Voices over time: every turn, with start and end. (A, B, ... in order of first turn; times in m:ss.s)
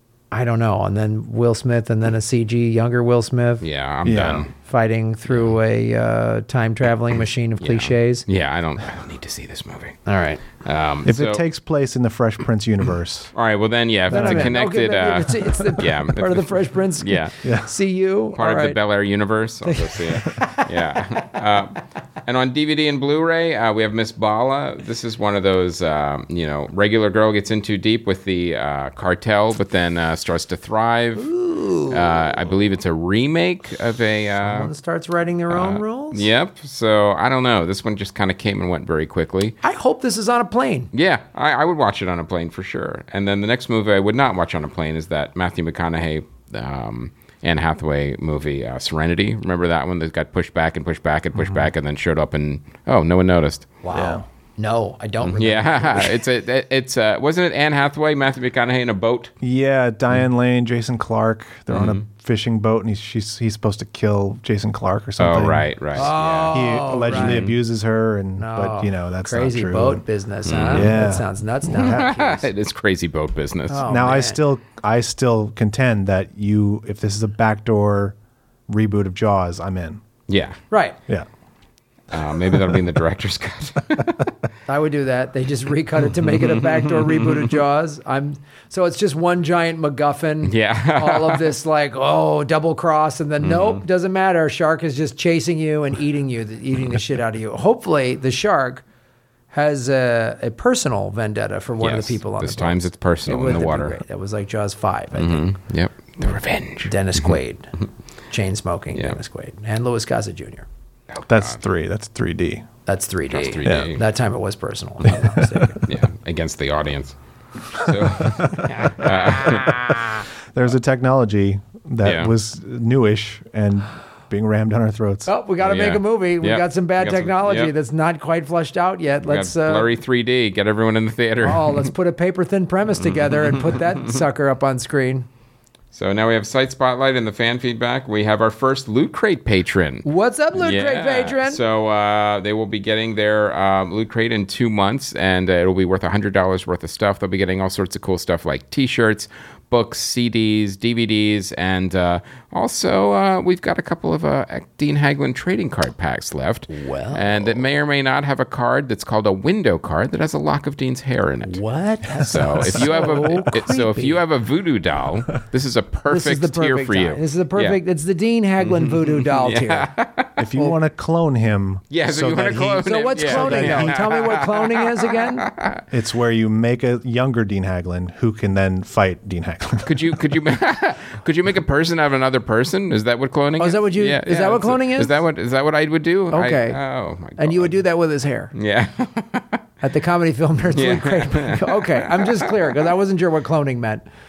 0:00.3-0:03.6 A
0:03.6-0:04.5 B
0:04.0-0:04.5 C
0:04.6-0:08.2 A
0:05.3-0:05.6 B
0:07.6-0:10.0 B
0:10.1-0:10.4 A
0:10.6-0:11.4 B
0:11.0-0:13.3 C
0:13.3-0:17.3 B
0:14.1-0:14.6 C
0:14.1-0:18.8 A
0:17.4-0:17.7 C
0:18.3-0:31.3 B
0:19.7-0:20.7 A
0:31.2-0:32.3 A
0:31.9-0:34.7 B
0:34.4-0:36.3 A
0:35.5-0:39.6 B
0:39.6-0:40.9 A
0:40.9-0:53.7 B
0:53.8-0:56.2 A
0:53.9-0:54.2 C
0:55.2-0:59.3 B
0:59.4-1:10.0 C
1:01.7-1:02.0 B
1:05.2-1:07.6 B
1:06.0-1:07.5 A
1:08.4-1:12.5 A
1:10.5-1:11.0 B
1:10.7-1:11.9 C
1:11.7-1:13.9 B
1:13.7-1:14.4 A
1:13.8-1:18.2 C
1:18.7-1:20.0 C
1:20.3-1:20.6 B
1:20.7-1:21.0 A
1:22.1-1:24.2 B
1:24.7-1:38.8 A
1:26.4-1:27.4 B
1:30.4-1:31.5 B
1:33.4-1:33.8 B
1:39.5-1:45.4 A
1:41.8-1:44.0 B
1:45.2-1:47.4 B
1:46.8-1:47.7 A
1:48.3-1:50.7 A
1:51.1-1:51.6 B
1:51.3-1:52.7 C
1:52.9-1:55.8 A
1:53.3-1:54.0 B
1:53.6-1:53.9 C
1:55.8-1:57.2 B
1:57.7-2:00.2 B
1:58.6-1:59.7 A
2:00.5-2:05.3 C
2:02.0-2:02.3 B
2:05.3-2:09.9 A
2:05.6-2:07.7 B
2:09.2-2:11.9 B
2:11.4-2:15.3 A
2:13.3-2:14.0 B
2:15.9-2:41.6 B
2:20.0-2:21.6 A
2:36.7-2:37.6 A
2:41.5-2:44.2 A
2:42.2-2:47.8 B
2:46.1-2:49.9 A
2:48.6-2:50.4 B
2:50.4-2:54.1 C
2:51.9-2:55.8 B
2:52.8-2:55.5 A
2:55.9-3:00.2 C
2:59.8-3:07.8 B
3:03.6-3:05.1 A
3:06.3-3:06.8 A
3:07.4-3:08.5 A
3:08.5-3:09.6 B
3:09.8-3:14.0 A
3:10.7-3:12.4 B